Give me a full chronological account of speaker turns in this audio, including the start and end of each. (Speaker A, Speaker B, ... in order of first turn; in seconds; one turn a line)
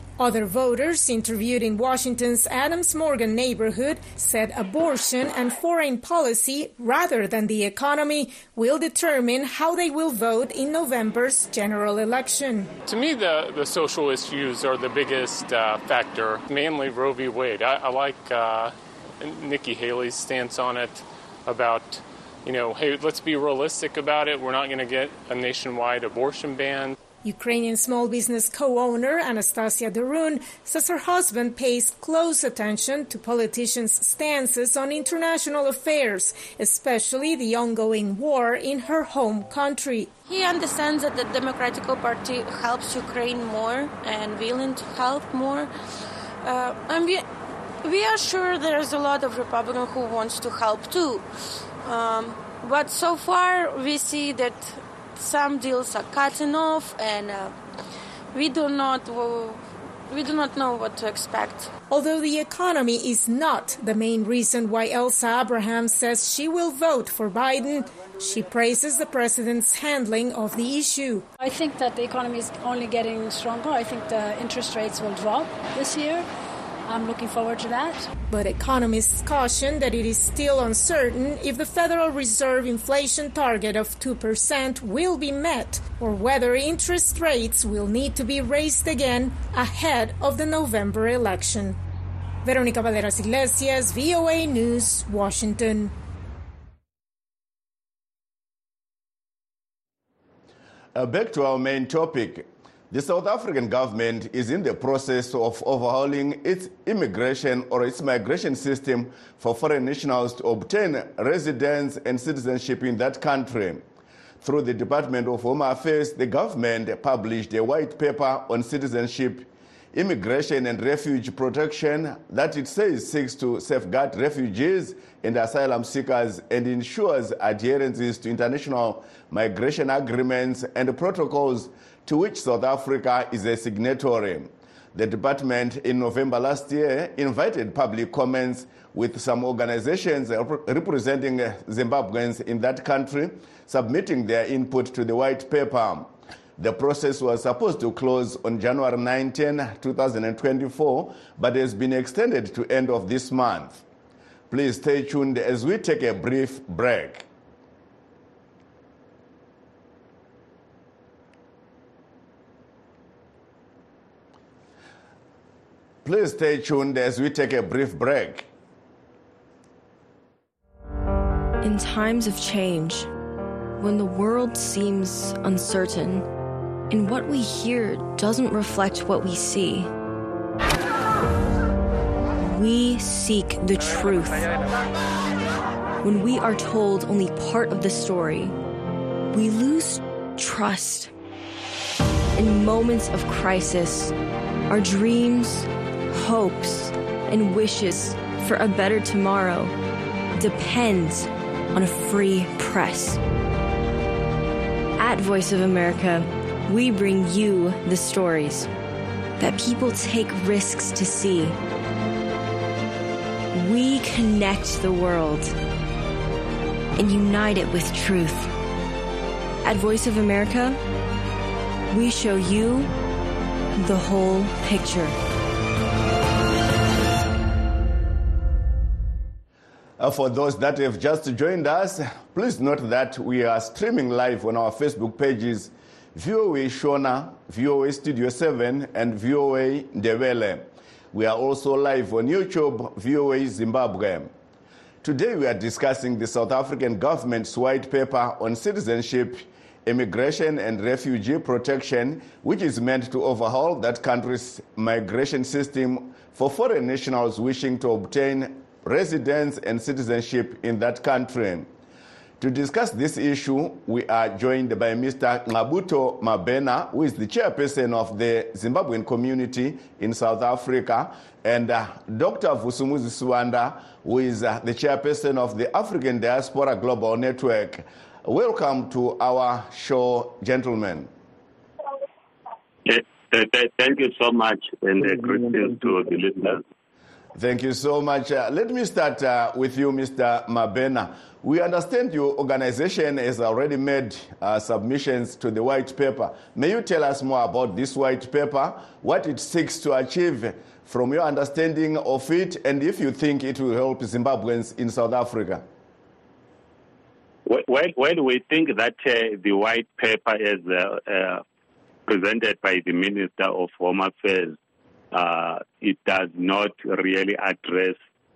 Speaker A: 0.2-12.7
Speaker B: 12.8-26.9
Speaker A: 27.2-40.1
Speaker C: 40.3-45.7
Speaker C: 46.4-47.2
Speaker C: 47.8-51.2
Speaker C: 51.8-57.5
Speaker C: 58.3-61.7
Speaker A: 61.9-71.2
Speaker D: 71.4-76.3
Speaker D: 76.9-78.1
Speaker A: 78.3-91.8
Speaker A: 92.4-95.9
Speaker E: 100.9-113.8
Speaker E: 114.4-153.8
Speaker E: 154.5-157.3
Speaker E: 166.0-168.5
Speaker F: 171.6-173.1
Speaker F: 173.8-176.2
Speaker F: 176.9-179.9
Speaker F: 182.4-184.6
Speaker F: 186.0-188.5
Speaker F: 189.3-191.1
Speaker F: 192.3-194.1
Speaker F: 194.7-199.7
Speaker F: 200.4-203.2
Speaker F: 205.0-208.7
Speaker F: 209.4-211.6
Speaker F: 213.5-215.5
Speaker F: 216.9-218.5
Speaker F: 219.6-220.8
Speaker F: 221.9-222.9
Speaker F: 223.8-225.2
Speaker E: 230.0-244.3
Speaker E: 245.0-261.7
Speaker E: 262.4-281.1
Speaker G: 282.9-286.6
Speaker E: 287.3-305.6
Speaker G: 307.4-311.4
Speaker G: 312.1-314.6
Speaker G: 315.1-317.9